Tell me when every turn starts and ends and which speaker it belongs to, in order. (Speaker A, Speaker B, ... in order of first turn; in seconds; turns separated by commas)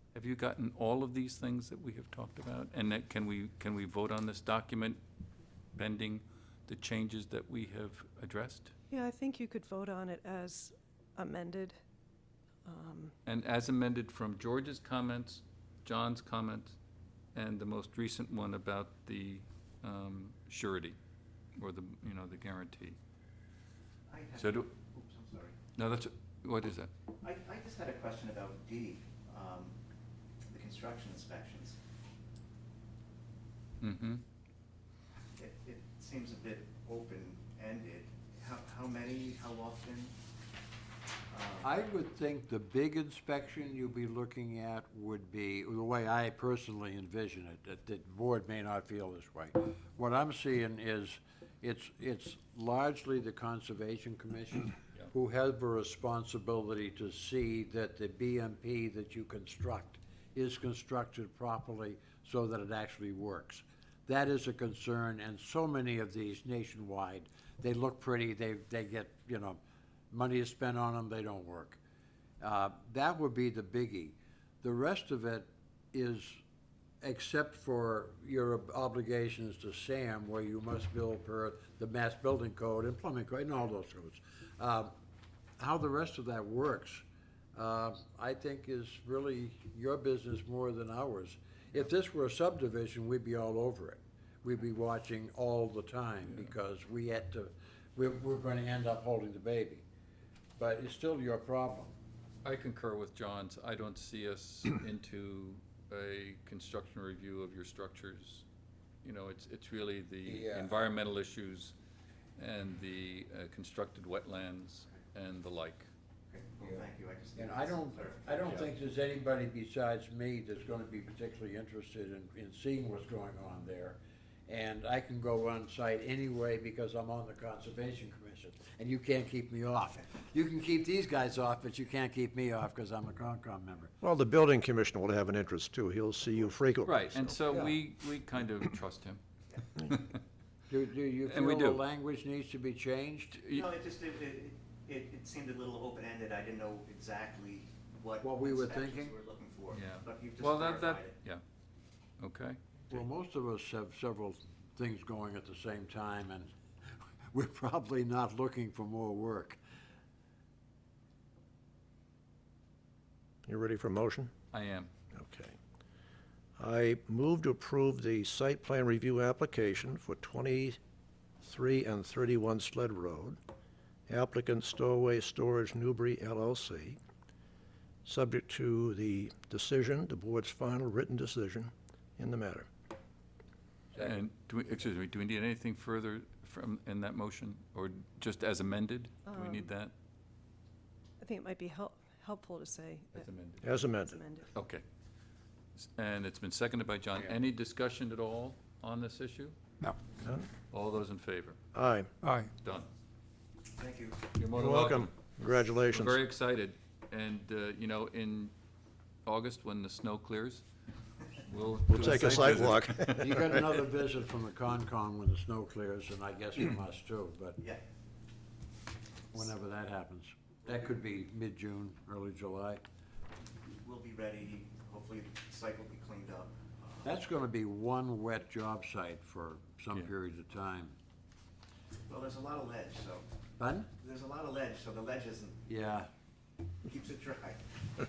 Speaker A: 0.1-5.0, Speaker A: 5.8-8.7, Speaker B: 8.9-11.8, Speaker B: 12.7-13.2, Speaker A: 13.3-16.8, Speaker A: 17.3-21.0, Speaker A: 21.6-23.0, Speaker C: 24.1-25.6, Speaker A: 24.4-24.7, Speaker A: 25.8-26.9, Speaker C: 27.2-29.8, Speaker C: 30.5-31.8, Speaker A: 33.8-34.2, Speaker C: 35.4-40.2, Speaker C: 41.3-41.7, Speaker D: 41.6-69.6, Speaker D: 70.1-71.8, Speaker D: 72.4-76.4, Speaker D: 77.0-84.9, Speaker D: 85.6-99.8, Speaker A: 96.3-96.5, Speaker D: 100.6-102.0, Speaker A: 102.4-108.5, Speaker A: 109.0-111.8, Speaker D: 110.2-110.8, Speaker A: 112.4-115.9, Speaker C: 116.3-118.7, Speaker D: 117.4-133.9, Speaker E: 134.0-137.4, Speaker A: 136.8-139.2, Speaker D: 137.5-137.8, Speaker A: 139.8-140.2, Speaker D: 140.7-143.5, Speaker A: 141.2-141.8, Speaker A: 143.4-143.7, Speaker C: 143.5-151.2, Speaker D: 148.2-149.2, Speaker A: 149.7-151.4, Speaker A: 152.2-153.0, Speaker D: 152.9-156.5, Speaker D: 157.3-159.6, Speaker E: 163.5-164.3, Speaker A: 164.5-164.9, Speaker E: 165.1-165.6, Speaker E: 166.6-170.8, Speaker E: 171.4-173.4, Speaker E: 174.1-177.0, Speaker E: 178.1-182.7, Speaker D: 183.9-184.2, Speaker A: 183.9-189.9, Speaker B: 189.3-189.7, Speaker B: 191.2-194.5, Speaker A: 193.2-193.6, Speaker E: 193.6-194.2, Speaker A: 194.6-194.8, Speaker A: 195.8-199.6, Speaker E: 200.2-200.5, Speaker A: 200.7-201.6, Speaker E: 201.7-202.2, Speaker A: 202.5-202.9, Speaker C: 203.8-204.2, Speaker A: 204.4-205.1, Speaker E: 204.5-206.2, Speaker A: 205.8-208.5, Speaker A: 209.3-210.6, Speaker A: 211.5-213.3, Speaker E: 211.9-213.6, Speaker D: 213.1-217.6, Speaker D: 219.3-222.8, Speaker C: 223.8-227.2, Speaker D: 227.0-231.0, Speaker C: 232.1-233.2, Speaker D: 233.6-233.9, Speaker C: 233.9-235.6, Speaker D: 235.7-236.1, Speaker C: 236.8-237.8